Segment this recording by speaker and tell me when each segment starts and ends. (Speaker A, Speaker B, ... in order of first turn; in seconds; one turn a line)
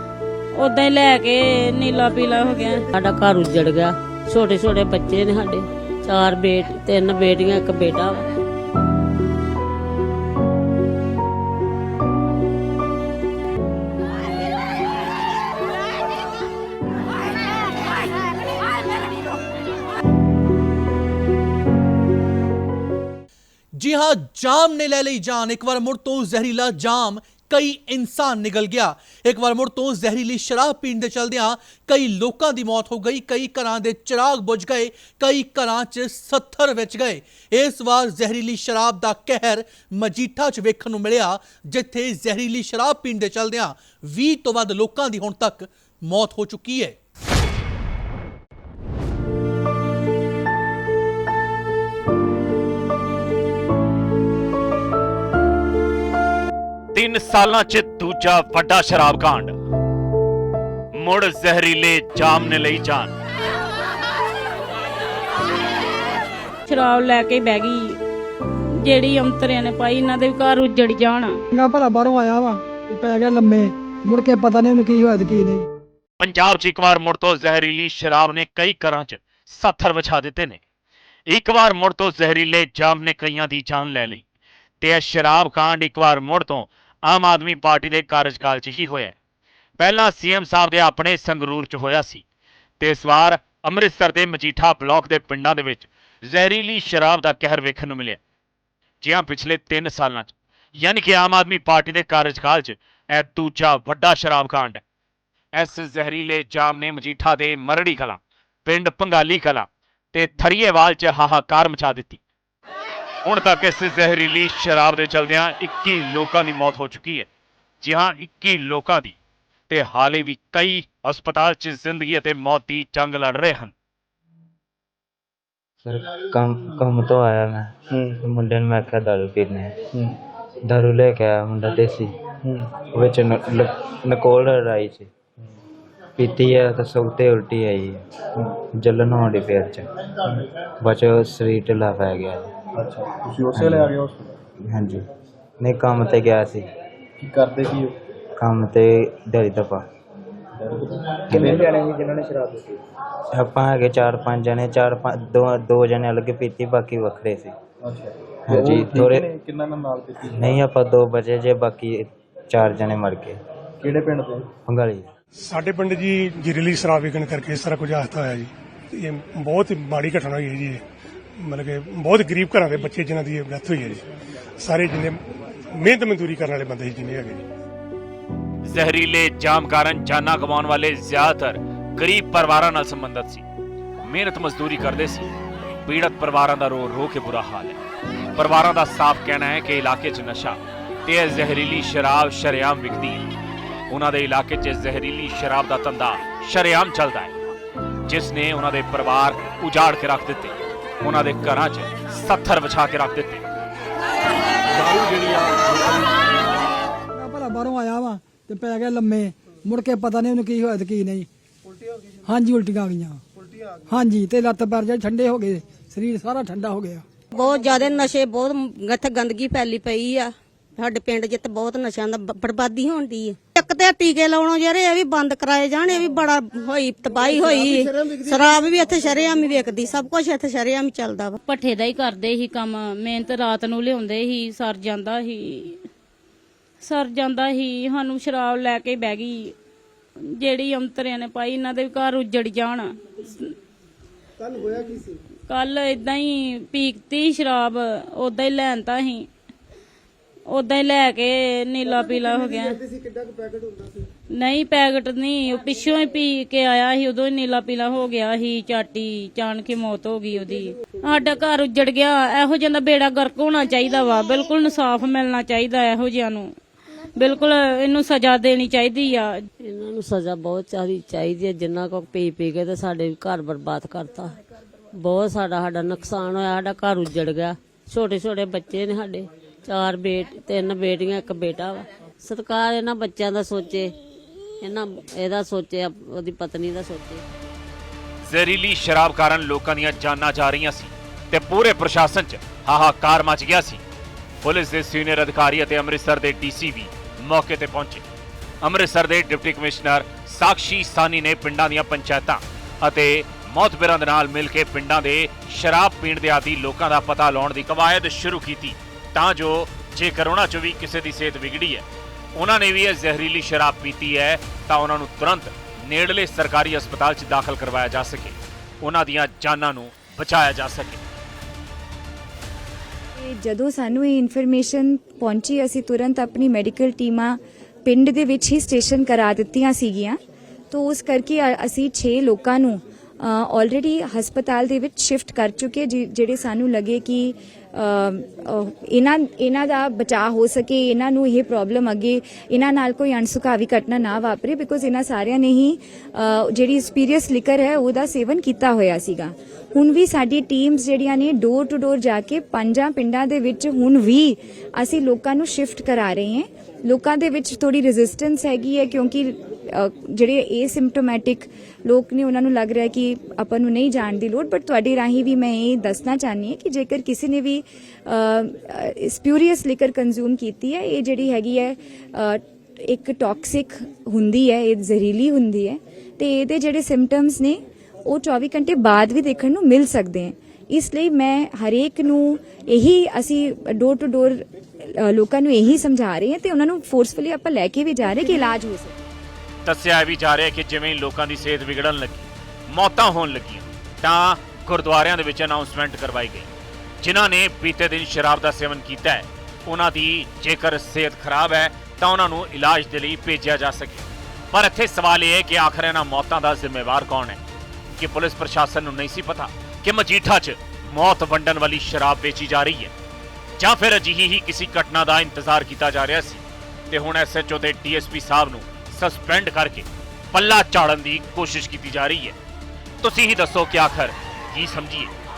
Speaker A: 0.6-2.9
Speaker B: 2.9-8.3
Speaker C: 23.7-47.0
Speaker D: 56.9-59.5
Speaker D: 60.9-63.1
Speaker A: 66.7-68.0
Speaker A: 68.8-71.4
Speaker E: 71.5-75.7
Speaker D: 76.2-80.6
Speaker D: 81.3-84.2
Speaker D: 84.8-89.1
Speaker D: 89.8-92.2
Speaker D: 92.8-98.2
Speaker D: 99.0-104.8
Speaker D: 105.5-112.2
Speaker D: 113.3-117.3
Speaker D: 117.8-119.1
Speaker D: 119.7-123.7
Speaker F: 125.8-129.8
Speaker F: 130.7-135.1
Speaker F: 136.2-138.0
Speaker F: 138.7-139.8
Speaker F: 140.8-142.5
Speaker G: 142.8-144.4
Speaker F: 143.5-143.9
Speaker F: 144.7-145.0
Speaker F: 145.6-146.7
Speaker G: 147.2-148.0
Speaker F: 148.4-149.8
Speaker G: 150.6-152.8
Speaker F: 151.3-151.7
Speaker F: 153.3-157.5
Speaker G: 157.8-160.6
Speaker F: 158.5-159.3
Speaker F: 160.3-163.4
Speaker G: 163.8-164.5
Speaker F: 164.7-165.1
Speaker H: 165.4-170.8
Speaker H: 171.4-174.0
Speaker H: 174.6-175.2
Speaker H: 175.7-177.4
Speaker D: 178.6-183.4
Speaker D: 184.0-185.3
Speaker D: 185.8-187.8
Speaker D: 188.3-193.3
Speaker D: 193.9-197.3
Speaker D: 198.1-203.4
Speaker E: 207.1-211.3
Speaker E: 212.2-213.2
Speaker E: 213.9-217.0
Speaker I: 217.3-231.4
Speaker A: 231.4-235.8
Speaker A: 236.8-239.5
Speaker A: 240.2-243.5
Speaker A: 245.5-249.3
Speaker A: 250.5-252.8
Speaker A: 254.3-266.6
Speaker A: 267.1-269.4
Speaker B: 269.6-274.4
Speaker B: 274.9-283.9
Speaker B: 284.6-287.2
Speaker D: 288.2-293.8
Speaker D: 294.4-298.1
Speaker D: 298.6-321.0
Speaker J: 323.2-330.2
Speaker J: 330.7-388.9
Speaker D: 389.6-396.5
Speaker D: 397.0-407.4
Speaker D: 407.9-412.9
Speaker D: 413.6-422.4
Speaker D: 423.0-425.1